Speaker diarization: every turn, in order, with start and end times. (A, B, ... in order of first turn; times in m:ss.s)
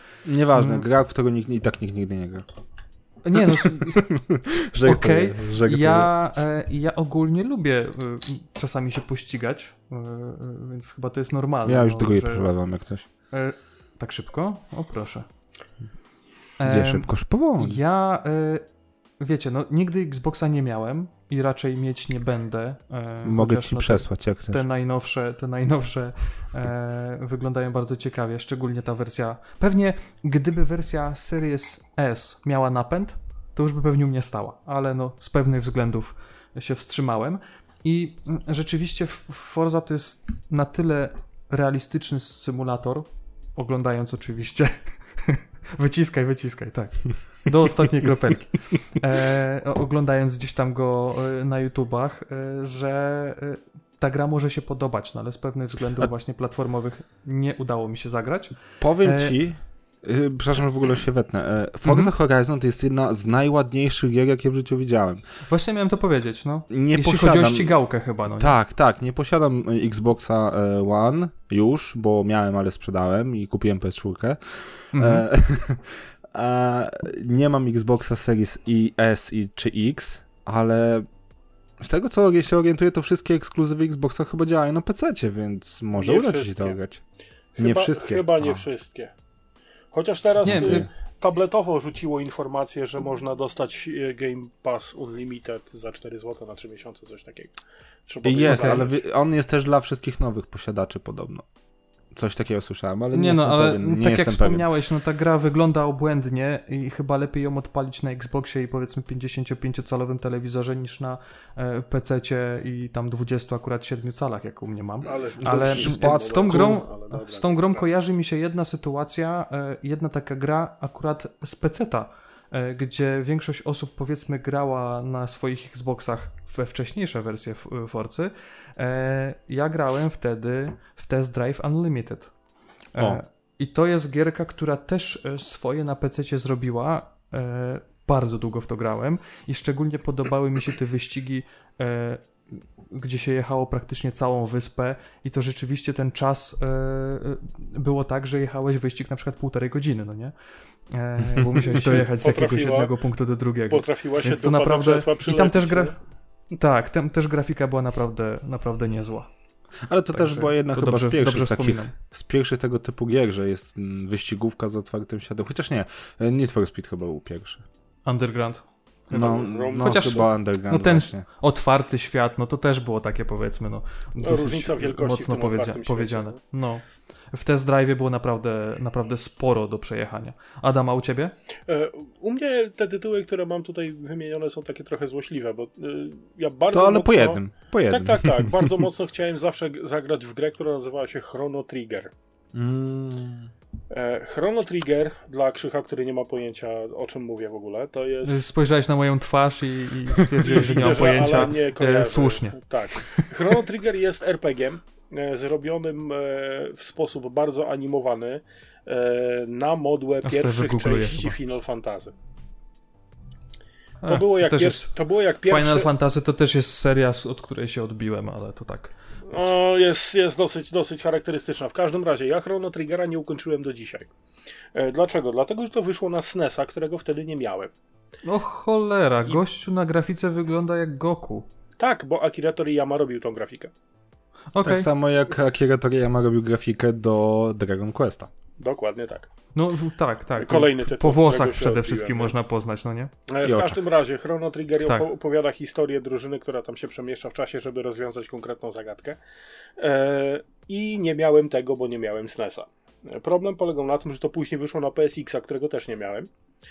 0:00.2-0:02.4 A
0:00.5-0:00.8 B
0:03.2-0:04.1 B
0:03.3-0:06.1 A
0:04.8-0:12.5 B
0:11.6-0:13.0 A
0:13.3-0:15.3 B
0:16.6-0:18.6 B
0:16.6-0:17.8 A
0:19.2-0:59.3 B
0:23.2-0:24.6 A
0:58.8-1:05.2 A
1:01.8-1:02.1 B
1:05.5-1:08.5 B
1:06.7-1:07.8 A
1:08.4-1:21.1 A
1:14.9-1:15.2 B
1:21.8-1:27.0 A
1:26.0-1:26.8 C
1:27.6-1:29.1 C
1:27.6-1:28.6 A
1:29.9-1:37.5 C
1:30.4-1:30.9 A
1:30.4-1:30.9 B
1:38.0-1:39.0 C
1:38.2-1:41.4 A
1:38.4-1:38.9 B
1:42.1-1:44.6 A
1:43.1-2:12.3 B
1:55.0-1:57.9 C
1:55.4-1:56.8 A
2:12.9-2:22.2 B
2:22.9-2:30.3 B
2:30.9-2:35.9 B
2:31.4-2:32.0 A
2:31.9-2:32.9 C
2:33.7-2:35.9 C
2:36.5-2:39.3 B
2:39.9-2:47.6 A
2:40.1-2:41.9 B
2:48.0-2:48.6 B
2:49.1-2:50.1 C
2:49.1-2:51.2 A
2:49.8-3:01.3 B
2:54.2-2:56.4 C
3:01.7-3:12.1 C
3:06.7-3:08.8 A
3:12.5-3:13.5 A
3:13.9-3:18.5 C
3:18.2-3:23.3 B
3:20.4-3:32.1 C
3:30.2-3:31.4 B
3:34.0-3:34.9 B
3:34.1-3:35.9 C
3:35.4-3:38.9 B
3:39.3-3:44.1 C
3:44.7-3:47.7 C
3:48.2-3:51.5 B
3:51.8-3:53.7 C
3:54.5-3:54.9 B
3:54.6-3:58.3 A
3:58.6-3:59.3 C
3:59.5-4:03.1 B
4:00.4-4:02.3 C
4:03.3-4:09.2 C
4:03.4-4:03.8 A
4:09.8-4:16.3 C